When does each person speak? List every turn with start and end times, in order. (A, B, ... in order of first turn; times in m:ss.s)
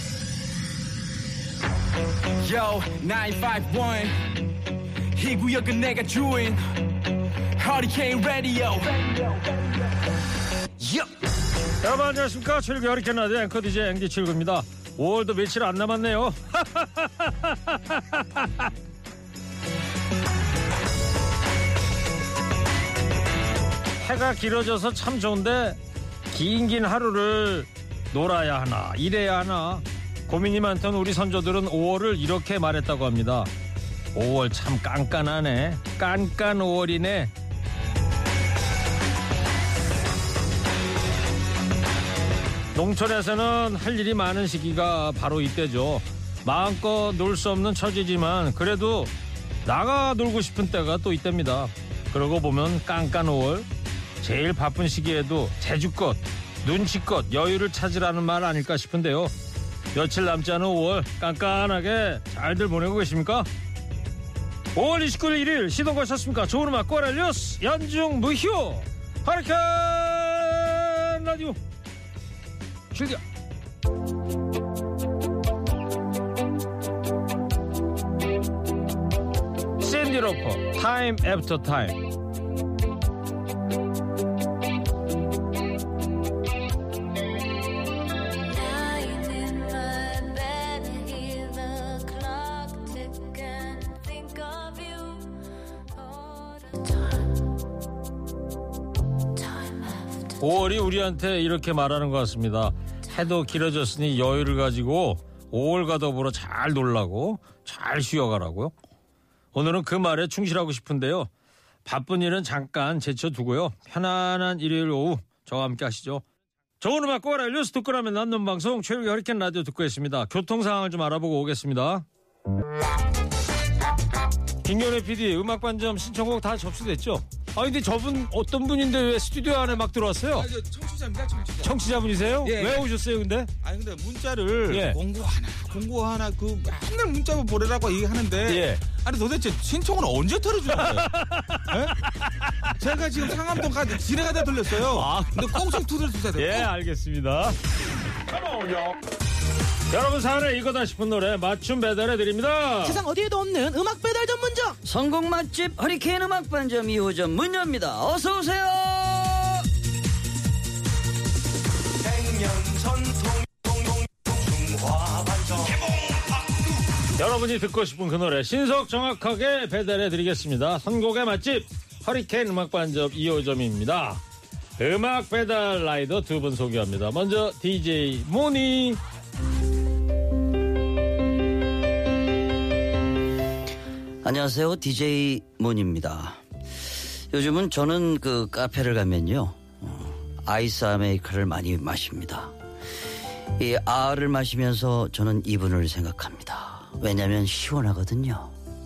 0:02.4-0:04.3 A
0:05.1-0:06.6 A
0:07.6-0:09.8 A
0:11.8-0:18.7 B
0:24.0-0:25.8 B
0:26.3-0:33.5 B
0:34.2-0:37.3 B
0:42.7-0:49.1 B
0:49.7-0:53.7 B
0:54.2-0:59.3 B
0:59.9-1:03.5 B
1:04.8-1:11.6 B
1:12.9-1:13.2 B
1:19.8-1:22.0 B
1:28.5-1:37.2 C
1:39.4-1:40.4 C
1:40.4-1:48.7 B
1:49.5-1:51.3 B
1:51.8-1:56.2 B
1:56.8-2:02.0 B
2:04.6-2:10.5 B
2:10.3-2:12.9 D
2:11.6-2:13.5 B
2:13.6-2:21.1 D
2:14.7-2:15.0 B
2:18.4-2:18.8 B
2:20.7-2:23.4 B
2:21.7-2:22.0 D
2:22.8-2:26.7 D
2:24.8-2:25.8 B
2:26.4-2:27.6 B
2:28.3-2:29.0 B
2:29.9-2:33.0 B
2:32.8-2:34.8 E
2:34.8-2:39.7 F
2:42.0-2:46.4 A
2:47.1-2:54.2 B
2:54.8-2:59.0 B
3:04.2-3:06.4 F
3:07.3-3:12.5 F
3:13.6-3:18.5 F